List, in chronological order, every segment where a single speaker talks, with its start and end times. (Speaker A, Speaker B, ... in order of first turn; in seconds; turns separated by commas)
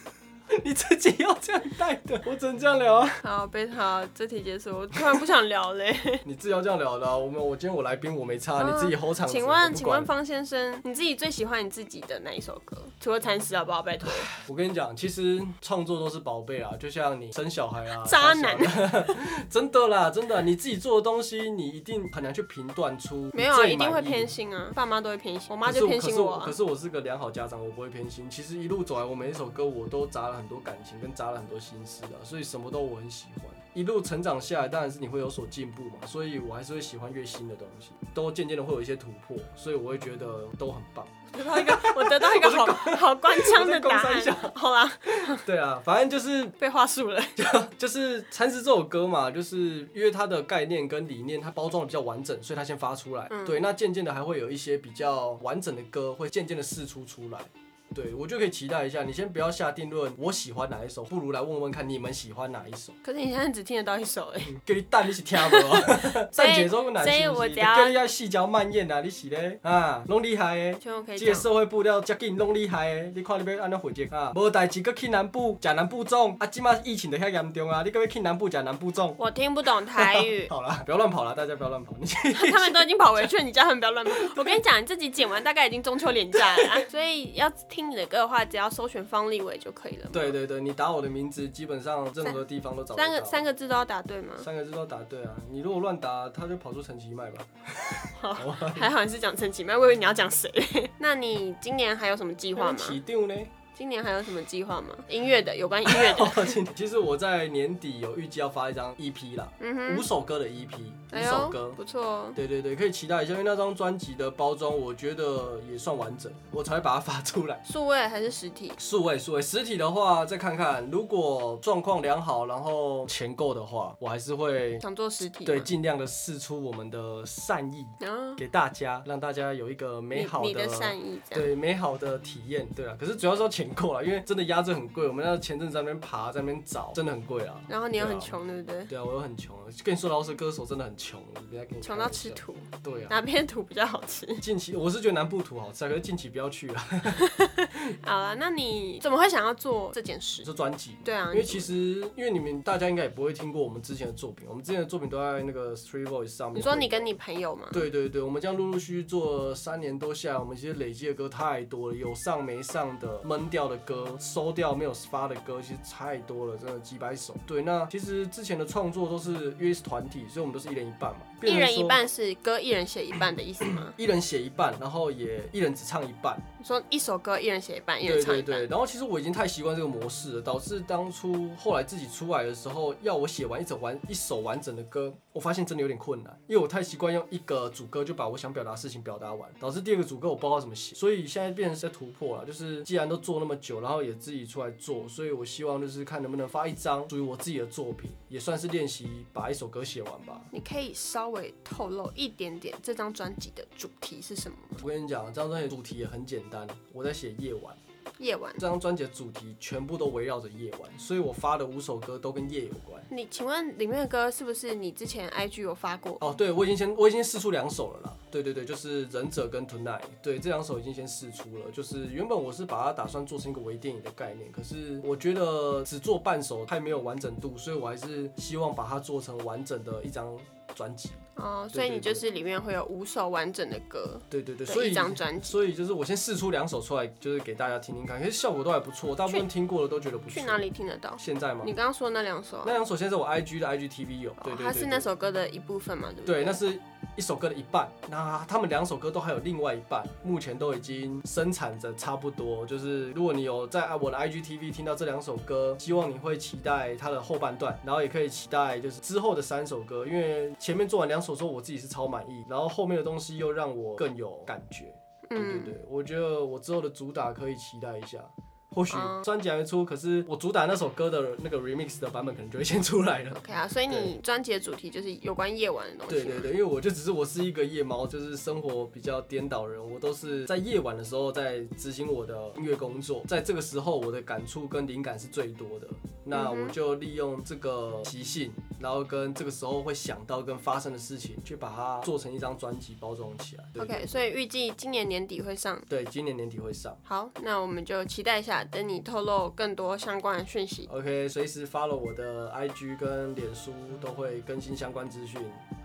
Speaker A: 0.5-3.2, Speaker B: 3.2-6.2, Speaker A: 6.2-10.1, Speaker B: 8.6-14.3, Speaker A: 14.4-24.3, Speaker B: 18.0-19.2, Speaker B: 23.3-26.6, Speaker A: 25.6-46.6, Speaker B: 41.3-45.4, Speaker B: 46.6-47.4, Speaker A: 47.4-63.0, Speaker B: 53.3-53.6, Speaker B: 63.0-64.5, Speaker A: 64.4-79.2, Speaker B: 65.3-68.0, Speaker B: 70.8-71.5, Speaker B: 79.2-80.5, Speaker A: 80.0-83.3, Speaker B: 82.3-90.4, Speaker A: 84.2-84.5, Speaker A: 90.1-93.5, Speaker B: 92.9-94.5, Speaker A: 94.4-98.9, Speaker B: 98.2-103.0, Speaker A: 102.6-103.5, Speaker B: 103.8-106.6, Speaker A: 105.9-111.8, Speaker B: 109.6-110.1, Speaker B: 111.1-112.4, Speaker A: 112.3-117.6, Speaker B: 117.7-118.8, Speaker A: 118.8-124.8, Speaker B: 124.8-125.7, Speaker A: 125.5-143.2, Speaker B: 128.0-128.4, Speaker B: 130.1-131.5, Speaker B: 137.7-138.9, Speaker B: 141.8-144.4, Speaker A: 144.4-147.3, Speaker B: 147.1-150.5, Speaker A: 150.4-157.1, Speaker B: 151.0-151.7, Speaker B: 156.5-157.9, Speaker A: 157.7-172.0, Speaker B: 171.4-173.9, Speaker A: 173.6-176.4, Speaker B: 176.6-178.7, Speaker A: 178.0-200.5, Speaker B: 200.5-204.8, Speaker A: 204.8-207.8, Speaker B: 208.2-208.6, Speaker A: 208.6-213.1, Speaker B: 213.1-216.2, Speaker A: 216.2-231.2, Speaker B: 231.4-235.6, Speaker A: 231.7-232.3, Speaker A: 234.3-240.7, Speaker B: 240.3-242.8, Speaker A: 241.2-241.7, Speaker A: 242.6-245.1, Speaker B: 244.4-246.6, Speaker A: 246.3-274.1, Speaker B: 265.3-265.8, Speaker B: 268.9-269.3, Speaker B: 273.3-276.5, Speaker A: 276.1-294.3, Speaker B: 286.3-286.8, Speaker B: 293.8-295.9, Speaker A: 295.9-297.0, Speaker B: 297.1-300.9, Speaker A: 300.9-305.6